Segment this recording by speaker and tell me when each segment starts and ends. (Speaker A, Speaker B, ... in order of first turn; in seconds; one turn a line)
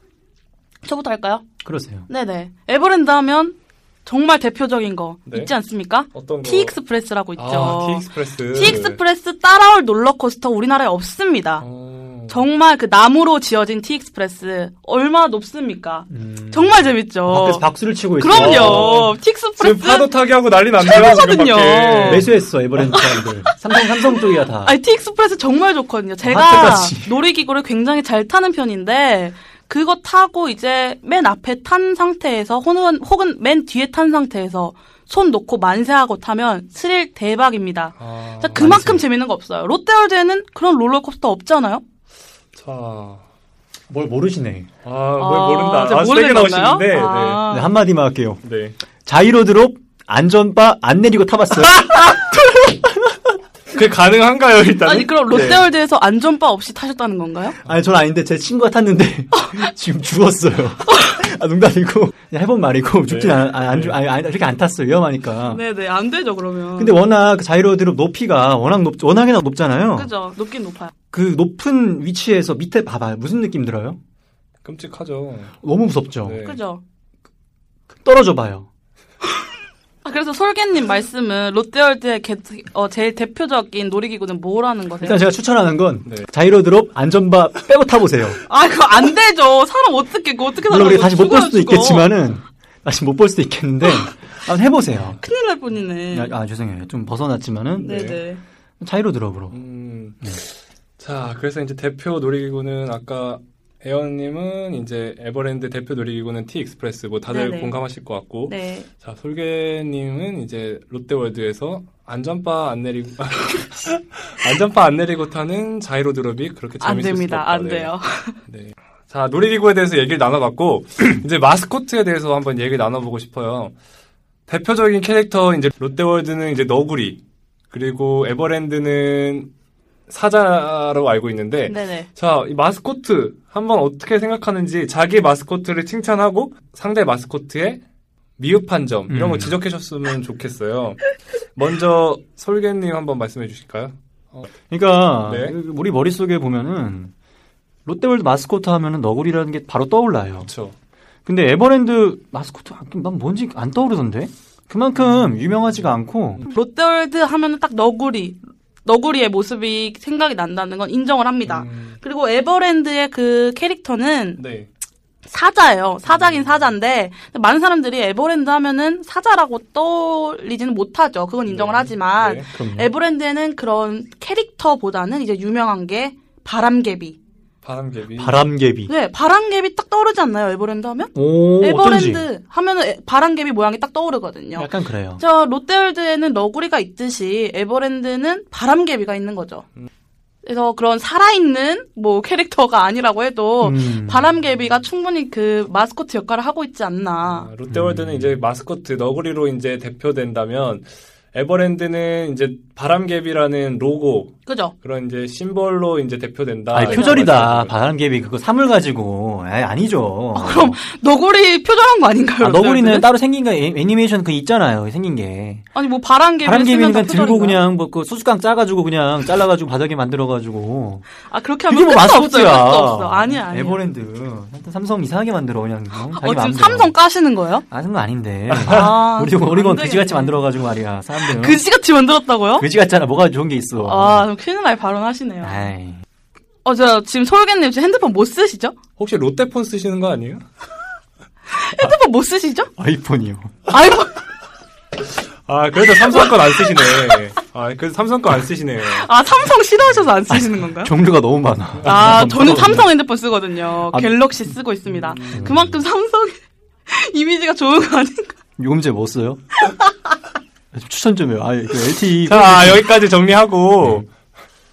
Speaker A: 0.8-1.4
Speaker B: 1.6-2.1
Speaker A: 2.1-11.6
Speaker C: 5.2-5.5
Speaker C: 6.1-6.8
Speaker C: 7.4-9.0
Speaker C: 11.6-12.4
Speaker A: 12.3-17.6
Speaker B: 16.1-19.0
Speaker A: 18.2-20.1
Speaker C: 18.3-22.3
Speaker A: 20.8-22.3
Speaker B: 22.1-24.8
Speaker A: 22.9-41.8
Speaker B: 26.2-27.2
Speaker C: 38.0-38.9
Speaker B: 38.5-39.0
Speaker C: 42.5-43.2
Speaker B: 43.9-44.7
Speaker C: 44.8-47.4
Speaker A: 45.2-47.7
Speaker B: 47.5-48.4
Speaker C: 48.4-48.8
Speaker B: 49.0-53.1
Speaker C: 51.7-52.1
Speaker C: 53.7-55.7
Speaker A: 54.8-57.5
Speaker B: 57.6-65.6
Speaker A: 59.4-59.7
Speaker A: 60.9-61.2
Speaker C: 63.1-64.0
Speaker A: 65.4-67.0
Speaker B: 66.8-70.1
Speaker A: 69.9-70.9
Speaker B: 71.1-74.0
Speaker C: 74.6-75.5
Speaker B: 75.6-76.5
Speaker C: 76.2-76.6
Speaker A: 76.4-76.8
Speaker B: 78.0-78.7
Speaker A: 80.0-85.2
Speaker B: 85.0-88.4
Speaker A: 88.5-92.1
Speaker B: 90.6-95.2
Speaker A: 95.2-96.3
Speaker B: 96.1-98.0
Speaker C: 97.8-98.2
Speaker A: 97.8-98.4
Speaker B: 98.8-99.6
Speaker C: 99.5-117.9
Speaker A: 107.3-107.8
Speaker A: 108.5-108.9
Speaker A: 116.8-118.4
Speaker C: 118.5-123.7
Speaker C: 124.5-127.2
Speaker C: 127.7-129.5
Speaker C: 130.1-137.8
Speaker A: 131.6-132.1
Speaker C: 138.4-144.5
Speaker B: 139.1-139.6
Speaker B: 144.7-147.1
Speaker C: 145.2-145.6
Speaker B: 147.8-150.5
Speaker C: 150.4-150.8
Speaker B: 151.2-156.5
Speaker C: 155.0-156.4
Speaker A: 156.5-164.4
Speaker C: 161.4-162.0
Speaker C: 164.4-164.7
Speaker A: 165.2-177.2
Speaker C: 166.1-166.7
Speaker C: 171.5-172.5
Speaker B: 172.5-172.9
Speaker C: 177.6-178.4
Speaker B: 178.2-178.9
Speaker A: 178.9-189.6
Speaker B: 181.1-182.3
Speaker B: 184.5-185.2
Speaker A: 190.4-197.5
Speaker B: 193.6-194.3
Speaker C: 197.2-207.8
Speaker B: 197.7-198.3
Speaker A: 204.4-204.7
Speaker B: 206.7-210.8
Speaker A: 206.8-207.3
Speaker A: 210.3-213.1
Speaker B: 212.4-215.7
Speaker A: 215.7-217.6
Speaker B: 216.4-221.1
Speaker A: 221.3-223.8
Speaker B: 221.7-226.9
Speaker A: 226.1-227.6
Speaker B: 227.7-231.6
Speaker C: 228.5-228.8
Speaker A: 228.7-230.4
Speaker A: 231.2-232.7
Speaker B: 232.6-234.3
Speaker A: 233.8-235.6
Speaker B: 235.4-236.0
Speaker A: 236.6-238.7
Speaker C: 239.0-240.4
Speaker A: 241.5-242.7
Speaker B: 242.8-243.6
Speaker A: 243.7-244.2
Speaker C: 245.4-249.1
Speaker A: 248.9-250.9
Speaker B: 250.3-252.9
Speaker C: 251.8-252.8
Speaker A: 251.8-258.3
Speaker B: 253.9-254.2
Speaker C: 254.8-255.6
Speaker B: 255.3-255.8
Speaker B: 258.6-259.4
Speaker B: 260.7-262.9
Speaker C: 262.2-264.1